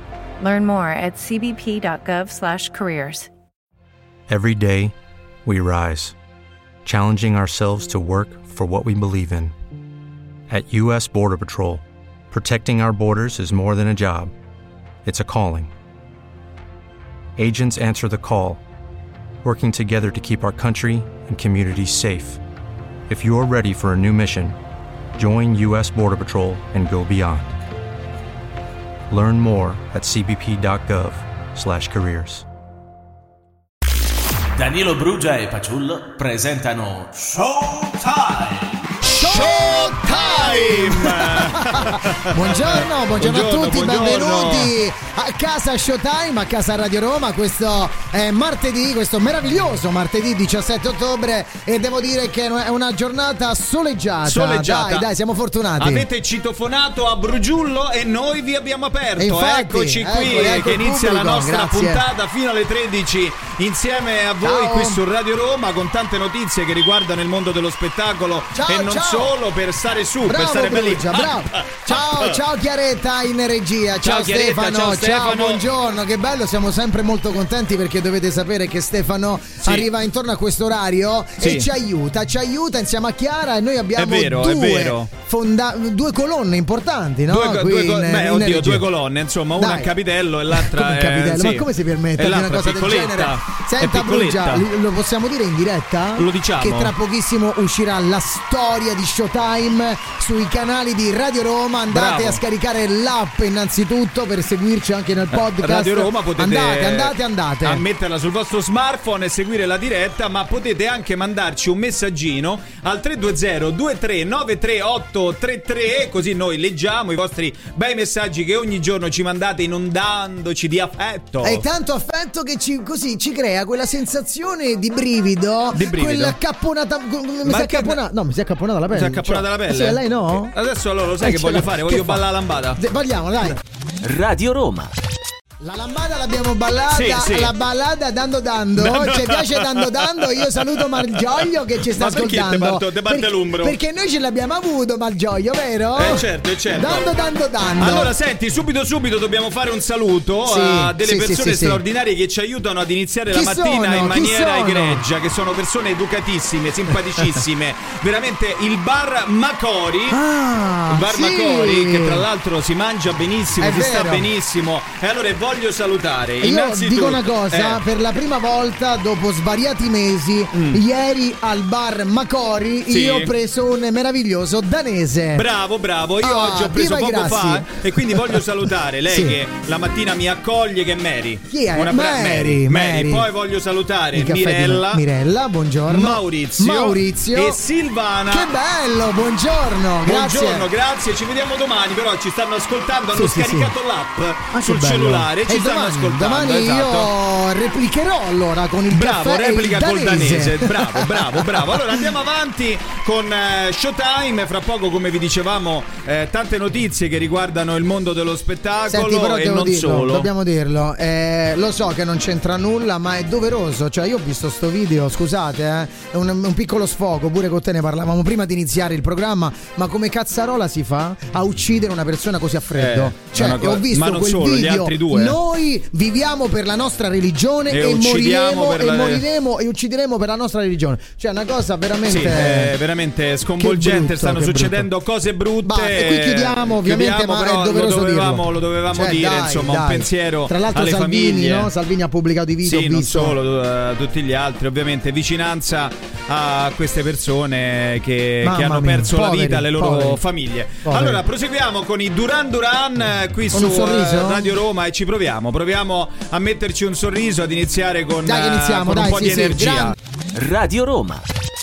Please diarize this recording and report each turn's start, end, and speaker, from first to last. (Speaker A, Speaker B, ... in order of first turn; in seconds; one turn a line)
Speaker A: 0.4-3.3
Speaker B: 4.3-4.9
Speaker B: 5.5-6.2
Speaker B: 6.8-9.5
Speaker B: 10.5-14.3
Speaker B: 15.1-15.7
Speaker B: 17.4-18.6
Speaker B: 19.4-22.4
Speaker B: 23.1-24.6
Speaker B: 25.1-27.5
Speaker B: 29.1-32.5
Speaker C: 34.6-38.8
Speaker D: 39.1-44.7
Speaker E: 39.2-56.0
Speaker D: 54.2-55.1
Speaker D: 55.8-72.4
Speaker E: 59.2-62.0
Speaker E: 64.4-65.0
Speaker E: 68.5-69.3
Speaker E: 70.3-88.8
Speaker D: 74.0-75.6
Speaker D: 81.4-81.7
Speaker D: 84.0-85.1
Speaker D: 87.3-94.6
Speaker E: 89.6-89.9
Speaker E: 90.6-107.8
Speaker D: 96.2-96.9
Speaker D: 101.9-102.4
Speaker D: 105.3-121.7
Speaker E: 121.4-130.5
Speaker D: 125.7-126.4
Speaker D: 127.4-128.0
Speaker D: 128.9-132.8
Speaker E: 131.2-132.2
Speaker E: 132.8-133.6
Speaker C: 134.0-134.9
Speaker E: 135.6-148.1
Speaker D: 136.9-137.5
Speaker D: 138.8-140.1
Speaker D: 142.0-143.8
Speaker D: 145.9-147.1
Speaker D: 147.8-160.2
Speaker E: 150.5-151.8
Speaker E: 153.3-155.0
Speaker E: 160.1-162.2
Speaker D: 160.9-167.8
Speaker E: 163.6-164.3
Speaker E: 166.4-175.4
Speaker D: 170.5-170.8
Speaker D: 172.9-173.3
Speaker D: 175.3-185.0
Speaker E: 176.2-178.4
Speaker E: 179.1-179.4
Speaker E: 181.5-183.3
Speaker E: 184.1-187.6
Speaker D: 185.9-188.5
Speaker E: 188.3-190.7
Speaker D: 190.0-197.1
Speaker E: 193.1-193.7
Speaker E: 194.5-201.8
Speaker D: 198.9-210.3
Speaker E: 208.9-232.7
Speaker D: 222.8-225.4
Speaker D: 227.7-229.2
Speaker D: 232.1-241.7
Speaker E: 233.6-234.9
Speaker E: 235.7-243.4
Speaker D: 242.6-259.9
Speaker E: 248.4-250.2
Speaker E: 250.8-251.2
Speaker E: 253.5-254.5
Speaker E: 258.3-259.9
Speaker C: 260.4-261.3